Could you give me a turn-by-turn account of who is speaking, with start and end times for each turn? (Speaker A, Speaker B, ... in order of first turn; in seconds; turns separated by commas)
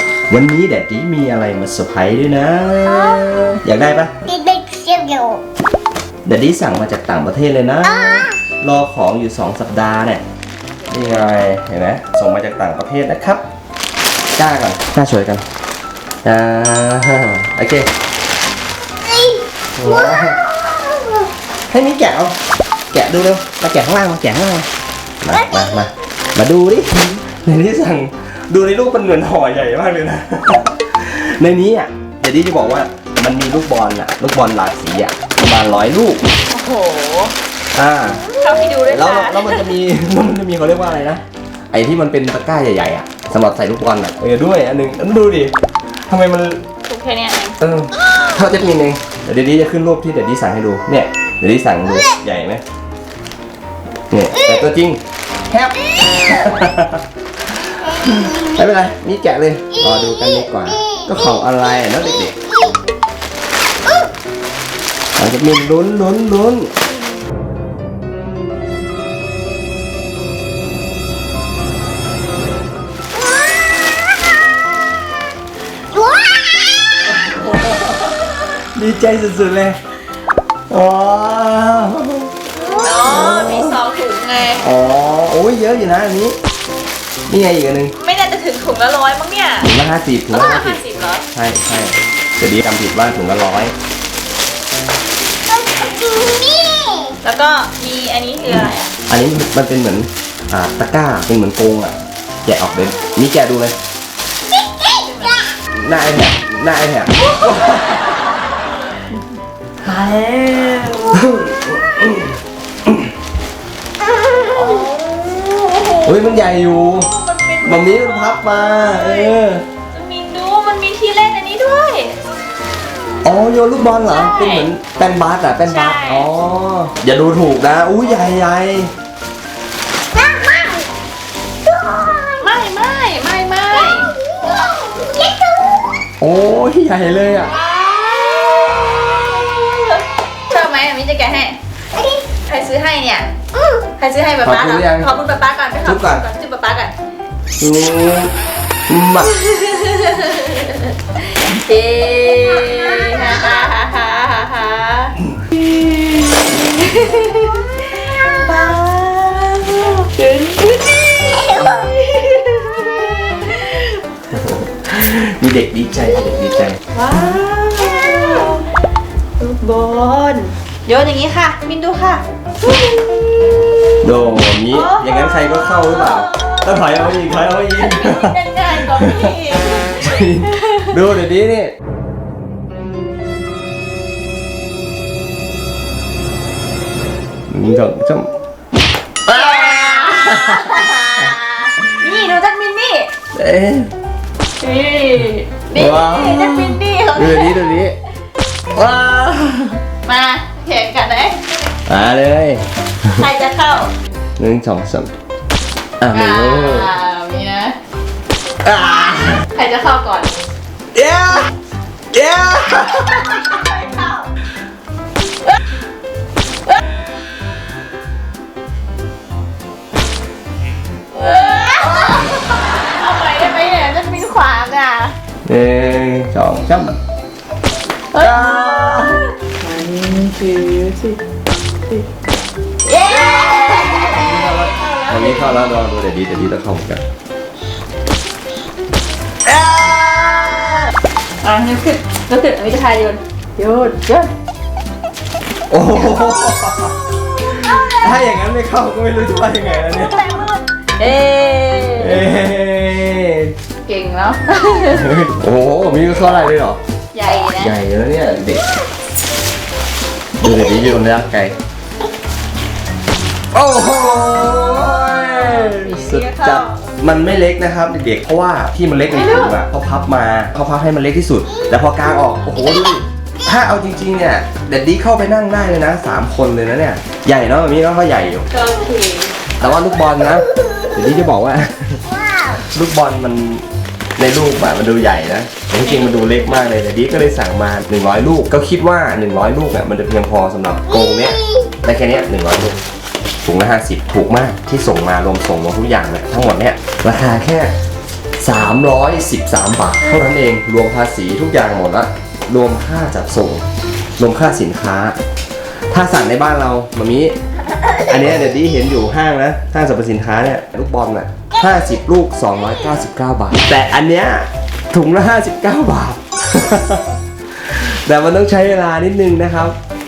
Speaker A: 0.3-4.1, Speaker B: 2.8-3.6, Speaker B: 4.2-5.4, Speaker A: 6.2-10.2, Speaker B: 7.8-8.4, Speaker A: 10.9-13.4, Speaker A: 14.3-15.4, Speaker A: 16.2-17.9, Speaker B: 19.0-21.3, Speaker A: 19.8-20.4, Speaker A: 21.7-22.4, Speaker A: 22.9-24.7, Speaker A: 25.2-36.2, Speaker C: 36.5-37.3, Speaker A: 37.7-38.3, Speaker C: 38.4-39.7, Speaker A: 38.9-45.5, Speaker A: 46.1-46.6, Speaker C: 46.9-47.6, Speaker A: 47.6-52.6, Speaker A: 54.1-57.0, Speaker B: 54.3-54.6, Speaker A: 57.5-62.3, Speaker B: 57.9-58.6, Speaker B: 59.7-62.8, Speaker B: 63.8-64.1, Speaker A: 65.2-66.7, Speaker B: 75.9-77.1, Speaker A: 77.1-79.8, Speaker A: 80.7-82.3, Speaker B: 82.6-82.9, Speaker C: 82.7-84.7, Speaker A: 82.9-83.8, Speaker A: 84.6-86.4, Speaker A: 87.3-87.9, Speaker C: 88.0-89.7, Speaker A: 89.6-90.8, Speaker C: 90.3-91.2, Speaker A: 91.3-93.7, Speaker B: 95.5-97.2, Speaker C: 97.2-98.9, Speaker A: 98.5-103.8, Speaker B: 104.5-105.4, Speaker C: 105.0-105.4, Speaker A: 105.7-108.1, Speaker C: 107.4-109.0, Speaker C: 109.8-111.3, Speaker A: 111.1-113.1, Speaker B: 114.1-114.9, Speaker C: 114.3-119.4, Speaker A: 116.0-117.1, Speaker A: 117.6-119.6, Speaker C: 119.9-122.2, Speaker A: 123.2-128.9, Speaker C: 123.9-124.7, Speaker C: 125.6-126.3, Speaker B: 130.1-130.9, Speaker B: 131.6-132.6, Speaker C: 132.4-134.1, Speaker B: 133.7-135.9, Speaker A: 136.2-137.5, Speaker C: 137.4-141.6, Speaker B: 141.9-142.2, Speaker C: 142.5-143.3, Speaker B: 143.5-143.8, Speaker C: 144.0-146.9, Speaker A: 144.4-145.1, Speaker A: 145.8-146.2, Speaker A: 147.6-148.3, Speaker A: 148.9-149.3, Speaker C: 149.2-164.0, Speaker A: 164.3-166.8, Speaker C: 166.9-168.7, Speaker C: 169.4-180.9, Speaker A: 174.0-181.7, Speaker A: 187.5-188.3, Speaker A: 189.3-191.0, Speaker C: 189.3-193.1, Speaker A: 193.3-193.9, Speaker C: 194.6-197.8, Speaker A: 195.7-198.0, Speaker A: 198.7-199.8, Speaker C: 200.0-201.4, Speaker A: 201.9-203.2, Speaker C: 203.2-203.9, Speaker A: 204.4-205.1, Speaker A: 206.0-206.9, Speaker C: 206.1-207.8, Speaker A: 208.6-209.4, Speaker C: 209.4-210.4, Speaker A: 210.9-211.5, Speaker A: 212.1-213.4, Speaker C: 213.2-214.3, Speaker C: 221.1-225.1, Speaker A: 225.4-227.0, Speaker C: 228.1-231.2, Speaker A: 228.2-229.2, Speaker C: 232.8-235.6, Speaker B: 233.3-233.8, Speaker A: 233.9-237.0, Speaker A: 239.4-240.8, Speaker C: 241.4-244.3, Speaker A: 245.7-247.0, Speaker C: 247.5-248.2, Speaker A: 247.5-250.4, Speaker C: 249.6-252.2, Speaker A: 252.0-253.5, Speaker C: 253.8-255.2, Speaker A: 254.9-256.8, Speaker C: 257.1-257.8, Speaker A: 257.5-258.7, Speaker A: 260.4-261.5, Speaker A: 263.5-278.5, Speaker C: 265.3-266.8, Speaker C: 269.1-269.6, Speaker B: 271.5-273.0, Speaker C: 278.5-279.3, Speaker A: 279.6-282.0, Speaker B: 280.5-280.9, Speaker B: 282.1-282.6, Speaker A: 282.6-283.7, Speaker A: 284.2-292.8, Speaker C: 285.8-286.5, Speaker B: 290.9-291.8, Speaker A: 293.4-297.7, Speaker A: 298.4-303.6, Speaker A: 304.2-305.2, Speaker A: 305.9-307.4, Speaker A: 308.1-319.8, Speaker B: 311.5-312.0